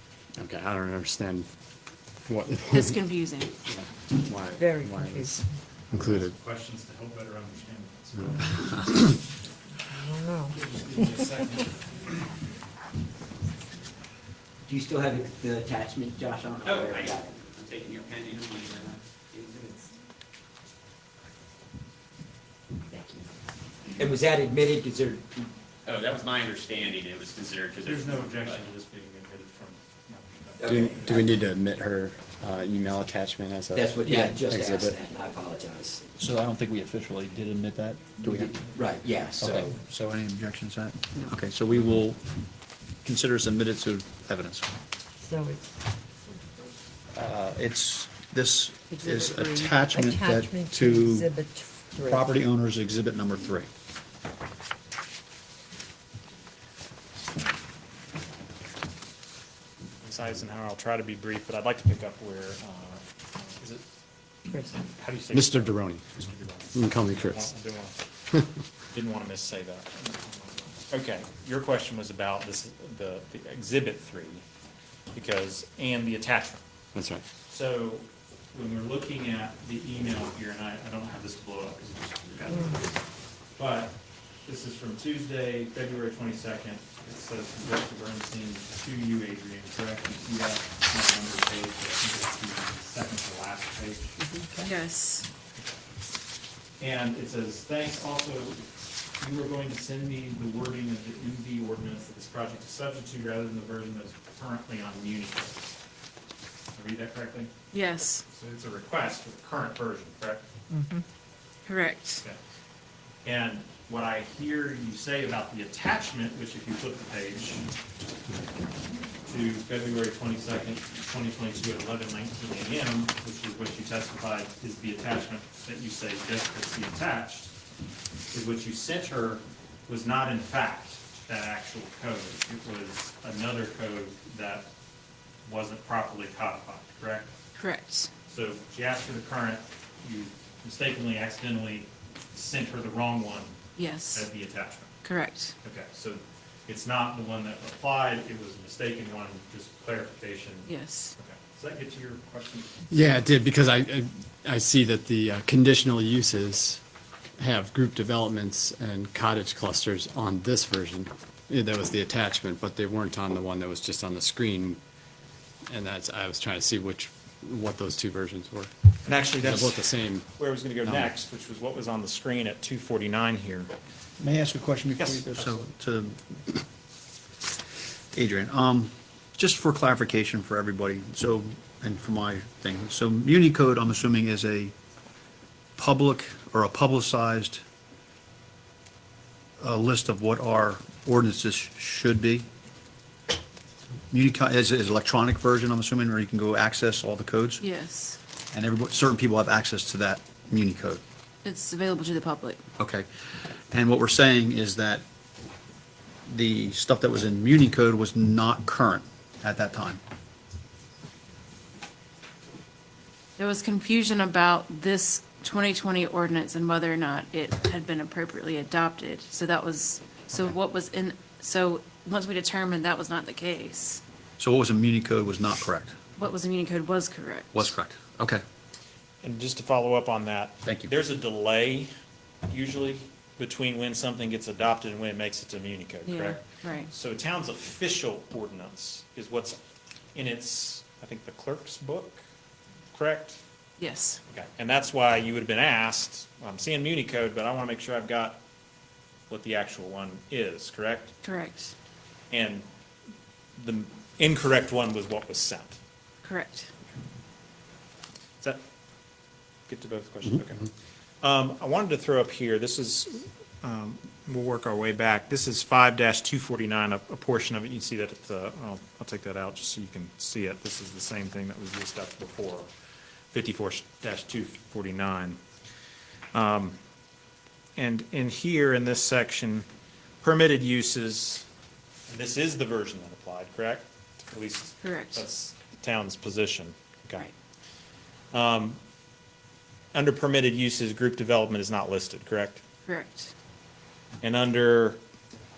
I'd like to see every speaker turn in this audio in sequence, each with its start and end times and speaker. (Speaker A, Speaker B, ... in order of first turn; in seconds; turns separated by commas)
Speaker A: 0.4-1.5, Speaker A: 2.3-3.0, Speaker B: 2.7-3.5, Speaker A: 3.6-6.3, Speaker C: 4.5-5.5, Speaker D: 6.0-8.9, Speaker C: 9.9-11.1, Speaker D: 10.5-12.0, Speaker E: 14.7-17.5, Speaker F: 16.6-19.5, Speaker E: 19.3-19.7, Speaker E: 22.9-23.2, Speaker E: 24.0-25.5, Speaker F: 25.8-28.7, Speaker D: 27.8-31.3, Speaker E: 30.6-31.2, Speaker A: 30.6-35.0, Speaker E: 33.7-36.0, Speaker G: 36.2-38.2, Speaker A: 38.2-38.5, Speaker E: 38.3-39.7, Speaker G: 39.4-42.2, Speaker G: 43.0-44.7, Speaker C: 45.2-45.7, Speaker G: 47.1-51.3, Speaker C: 48.9-52.3, Speaker G: 52.0-53.7, Speaker D: 60.0-63.8, Speaker D: 64.7-68.0, Speaker A: 65.3-66.1, Speaker A: 66.7-67.5, Speaker D: 68.9-74.4, Speaker D: 75.1-76.6, Speaker A: 77.0-77.2, Speaker D: 77.5-83.0, Speaker D: 83.6-94.2, Speaker C: 94.2-94.7, Speaker B: 94.6-95.3, Speaker D: 96.8-105.8, Speaker D: 106.8-107.5, Speaker B: 107.7-108.2, Speaker D: 108.3-110.4, Speaker B: 111.7-112.2, Speaker D: 113.2-117.7, Speaker D: 119.2-127.5, Speaker D: 128.3-134.7, Speaker D: 135.4-137.3, Speaker B: 137.6-138.1, Speaker D: 138.3-143.6, Speaker B: 143.8-144.3, Speaker D: 144.1-145.0, Speaker B: 145.0-145.5, Speaker D: 145.6-153.1, Speaker B: 150.7-151.1, Speaker A: 152.9-156.8, Speaker A: 157.4-164.8, Speaker A: 165.7-168.7, Speaker D: 169.0-173.7, Speaker A: 169.3-170.3, Speaker A: 170.8-171.1, Speaker G: 174.2-176.4, Speaker D: 175.0-175.6, Speaker G: 178.1-184.7, Speaker G: 185.8-187.6, Speaker G: 189.6-192.5, Speaker G: 194.1-197.6, Speaker B: 197.6-198.2, Speaker G: 198.5-201.0, Speaker B: 201.4-202.6, Speaker G: 202.8-203.1, Speaker G: 203.7-205.0, Speaker G: 206.3-210.0, Speaker B: 213.4-224.0, Speaker G: 224.4-225.9, Speaker B: 226.2-227.7, Speaker G: 227.5-228.4, Speaker D: 229.2-231.9, Speaker G: 230.6-230.9, Speaker D: 232.5-239.6, Speaker B: 236.1-236.9, Speaker D: 240.1-242.2, Speaker D: 242.9-243.4, Speaker B: 243.8-244.2, Speaker D: 244.3-248.4, Speaker D: 249.3-251.1, Speaker B: 251.2-251.7, Speaker D: 252.3-252.7, Speaker D: 253.6-255.8, Speaker B: 256.2-256.7, Speaker D: 259.7-260.7, Speaker D: 261.2-272.7, Speaker D: 273.3-275.4, Speaker D: 276.3-276.8, Speaker D: 277.8-279.6, Speaker D: 280.2-281.5, Speaker D: 282.1-287.3, Speaker B: 284.8-285.2, Speaker D: 288.3-288.8, Speaker D: 289.9-292.6, Speaker B: 292.9-293.3, Speaker D: 294.2-295.0